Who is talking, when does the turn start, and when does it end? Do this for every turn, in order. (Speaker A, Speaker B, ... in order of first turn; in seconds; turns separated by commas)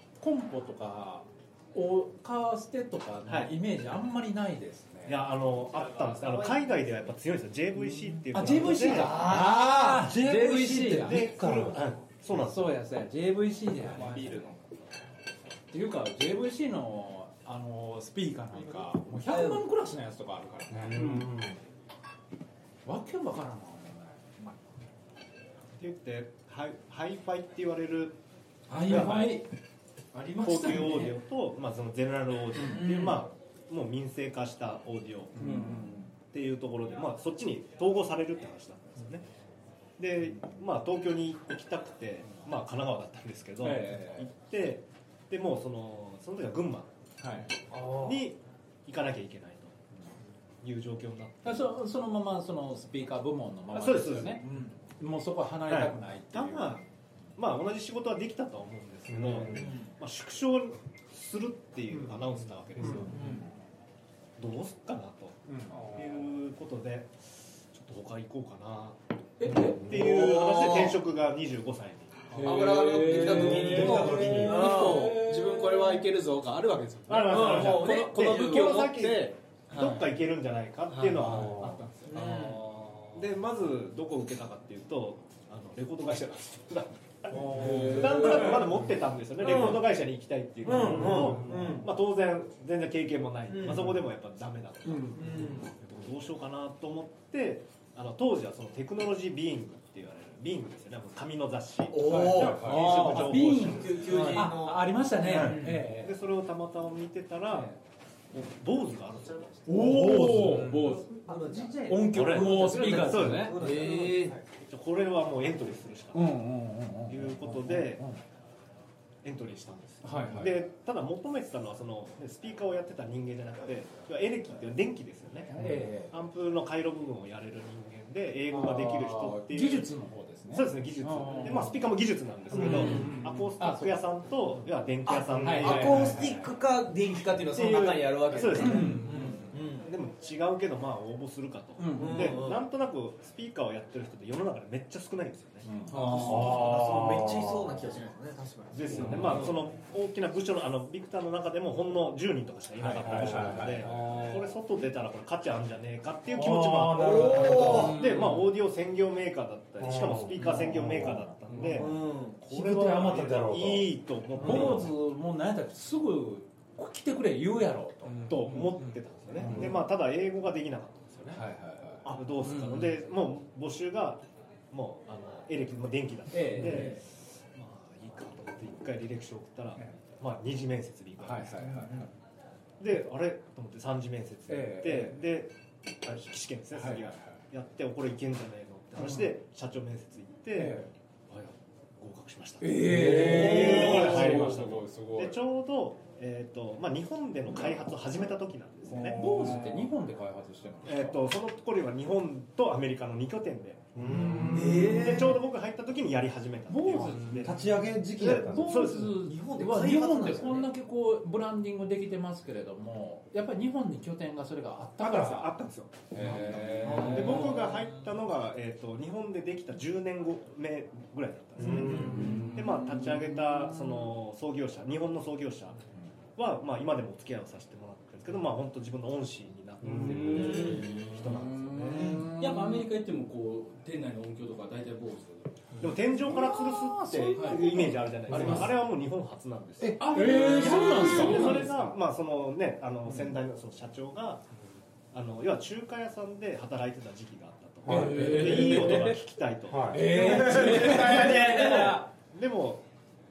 Speaker A: 0.2-5.2, Speaker B: 3.3-3.5, Speaker B: 5.0-9.3, Speaker C: 5.8-6.8, Speaker A: 8.3-11.3, Speaker C: 8.8-9.8, Speaker D: 9.2-11.9, Speaker B: 10.8-12.8, Speaker A: 12.3-14.4, Speaker E: 13.9-14.6, Speaker F: 14.0-14.4, Speaker A: 15.7-21.3, Speaker D: 20.8-21.6, Speaker F: 20.9-21.1, Speaker A: 22.8-24.5, Speaker B: 25.8-28.1, Speaker F: 28.7-29.5, Speaker B: 28.8-29.3, Speaker A: 28.9-29.3, Speaker F: 30.1-31.1, Speaker B: 30.4-39.2, Speaker C: 32.7-33.2, Speaker F: 35.4-36.1, Speaker A: 35.4-35.9, Speaker B: 40.0-46.9, Speaker A: 43.6-44.2, Speaker A: 47.2-47.5, Speaker B: 47.8-49.8, Speaker B: 50.6-51.7, Speaker A: 51.4-56.9, Speaker B: 53.7-54.6, Speaker B: 55.7-56.8, Speaker B: 57.4-63.2, Speaker D: 59.1-59.7, Speaker D: 62.8-63.0, Speaker A: 62.8-63.4, Speaker C: 63.1-63.4, Speaker B: 64.4-72.5, Speaker F: 69.4-69.9, Speaker D: 69.5-70.1, Speaker C: 70.1-70.9, Speaker F: 72.4-75.7, Speaker C: 72.4-75.3, Speaker E: 72.4-80.1, Speaker A: 73.1-73.7, Speaker D: 73.3-74.9, Speaker A: 74.9-75.3, Speaker B: 77.1-82.5, Speaker C: 77.3-78.8, Speaker E: 80.9-81.2, Speaker D: 81.2-81.8, Speaker C: 82.0-83.1, Speaker E: 82.2-82.6, Speaker B: 83.1-104.5, Speaker A: 87.3-88.2, Speaker F: 87.5-88.8, Speaker C: 89.4-89.8, Speaker C: 90.6-91.9, Speaker D: 90.7-91.7, Speaker C: 93.5-93.9, Speaker C: 94.9-95.7, Speaker C: 101.9-105.8, Speaker A: 102.1-106.1, Speaker D: 102.1-103.2, Speaker B: 105.2-107.8, Speaker A: 107.5-107.8, Speaker B: 108.3-109.9, Speaker F: 109.7-111.1, Speaker A: 109.7-113.6, Speaker D: 109.7-111.0, Speaker C: 111.2-114.4, Speaker B: 112.0-113.8, Speaker F: 112.2-114.2, Speaker E: 113.6-114.3, Speaker B: 114.5-116.3, Speaker A: 116.1-118.2, Speaker B: 117.1-118.0, Speaker B: 119.2-125.5, Speaker F: 120.0-120.5, Speaker A: 125.5-126.1, Speaker B: 126.1-129.9, Speaker A: 128.5-131.8, Speaker B: 130.5-136.2, Speaker A: 132.5-134.0, Speaker C: 132.5-133.2, Speaker C: 135.1-139.9, Speaker A: 135.4-136.5, Speaker B: 137.5-145.7, Speaker A: 138.5-139.5, Speaker A: 141.8-142.4, Speaker C: 141.9-142.6, Speaker A: 145.6-146.5, Speaker C: 145.9-149.6, Speaker D: 146.2-147.8, Speaker B: 148.7-164.9, Speaker A: 148.9-149.5, Speaker D: 149.0-149.4, Speaker A: 152.8-154.1, Speaker D: 153.0-154.5, Speaker D: 156.3-158.0, Speaker C: 157.0-158.1, Speaker F: 158.1-158.4, Speaker D: 159.8-161.9, Speaker A: 161.5-161.8, Speaker C: 161.7-162.4, Speaker D: 162.5-164.9, Speaker A: 164.4-168.6, Speaker E: 168.0-168.9, Speaker B: 168.3-171.4, Speaker A: 169.4-169.8, Speaker D: 169.4-169.8, Speaker A: 171.3-172.6, Speaker B: 172.0-182.1, Speaker F: 172.4-172.8, Speaker A: 176.3-177.0, Speaker A: 179.8-180.0, Speaker A: 181.2-182.1, Speaker B: 182.8-199.2, Speaker A: 184.5-185.2, Speaker A: 186.7-187.4, Speaker A: 189.0-189.3, Speaker A: 190.6-190.9, Speaker F: 192.6-195.4, Speaker D: 192.8-194.4, Speaker A: 193.1-194.5, Speaker F: 198.9-199.9, Speaker A: 199.0-201.2, Speaker B: 200.8-207.6, Speaker D: 203.9-205.2, Speaker C: 204.5-205.4, Speaker A: 204.6-205.0, Speaker A: 206.7-207.6, Speaker D: 207.1-208.9, Speaker B: 208.2-209.2, Speaker A: 208.2-215.5, Speaker C: 209.1-210.7, Speaker B: 215.0-225.8, Speaker A: 216.1-217.6, Speaker F: 216.2-217.5, Speaker C: 216.9-217.3, Speaker D: 221.6-222.5, Speaker A: 221.6-224.0, Speaker C: 221.8-222.2, Speaker F: 222.1-222.9, Speaker B: 226.4-232.3, Speaker D: 229.8-230.8, Speaker F: 229.9-231.1, Speaker A: 230.3-232.8, Speaker F: 232.0-235.5, Speaker B: 235.8-244.4, Speaker A: 236.2-238.7, Speaker F: 237.3-238.7, Speaker D: 238.3-238.7, Speaker F: 240.0-241.9, Speaker A: 240.0-241.7, Speaker B: 245.1-252.8, Speaker D: 247.8-249.1, Speaker F: 247.9-249.2, Speaker A: 247.9-249.2, Speaker D: 249.7-250.7, Speaker F: 249.9-251.8, Speaker A: 249.9-252.1